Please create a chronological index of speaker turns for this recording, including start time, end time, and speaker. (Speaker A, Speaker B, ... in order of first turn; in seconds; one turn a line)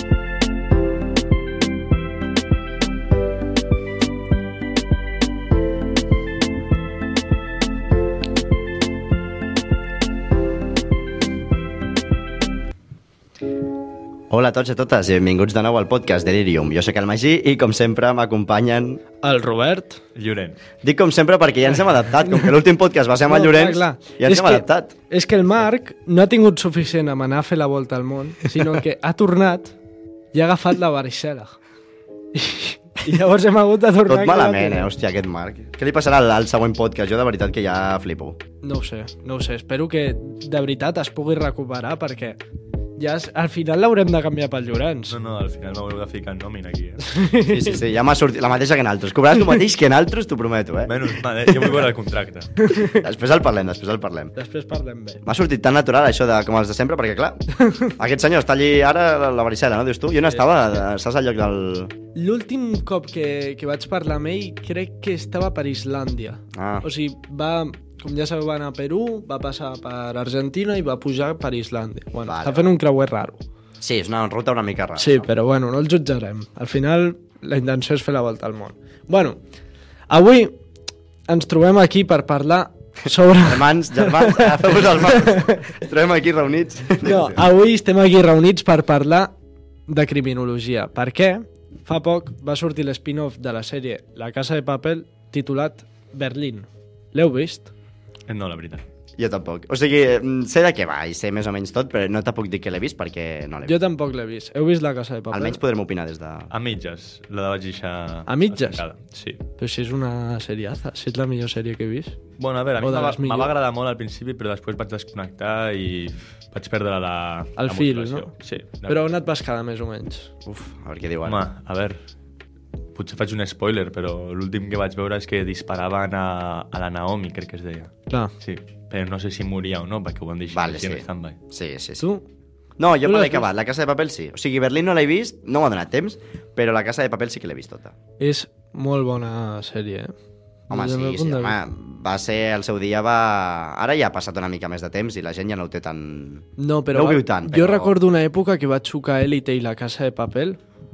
Speaker A: 14.3-19.0
Speaker B: 19.2-20.0
Speaker C: 20.1-20.6
Speaker A: 20.8-24.9
Speaker B: 23.2-29.7
Speaker B: 30.3-31.6
Speaker B: 32.3-34.9
Speaker A: 34.0-38.4
Speaker B: 38.6-42.4
Speaker B: 43.0-45.2
Speaker C: 45.1-47.2
Speaker B: 47.1-47.8
Speaker A: 47.4-51.0
Speaker C: 50.9-52.5
Speaker A: 52.7-54.3
Speaker B: 54.4-55.2
Speaker A: 55.2-61.9
Speaker B: 62.1-73.4
Speaker A: 66.5-66.9
Speaker A: 72.2-72.7
Speaker A: 73.8-75.3
Speaker B: 75.0-79.4
Speaker B: 80.1-80.6
Speaker B: 81.3-85.7
Speaker A: 83.3-87.5
Speaker B: 87.0-89.3
Speaker B: 89.9-97.7
Speaker C: 98.3-98.8
Speaker A: 99.2-103.8
Speaker B: 103.6-105.6
Speaker A: 105.3-106.5
Speaker C: 106.5-109.4
Speaker B: 108.3-108.8
Speaker B: 109.6-112.2
Speaker C: 112.4-119.0
Speaker B: 112.8-113.5
Speaker B: 117.6-118.3
Speaker B: 118.9-120.3
Speaker A: 120.5-121.4
Speaker C: 121.2-122.0
Speaker C: 122.9-131.3
Speaker A: 130.5-132.1
Speaker B: 132.0-132.2
Speaker A: 132.8-137.9
Speaker B: 133.0-133.5
Speaker B: 138.2-140.1
Speaker B: 140.7-141.6
Speaker A: 140.7-147.9
Speaker B: 146.6-150.6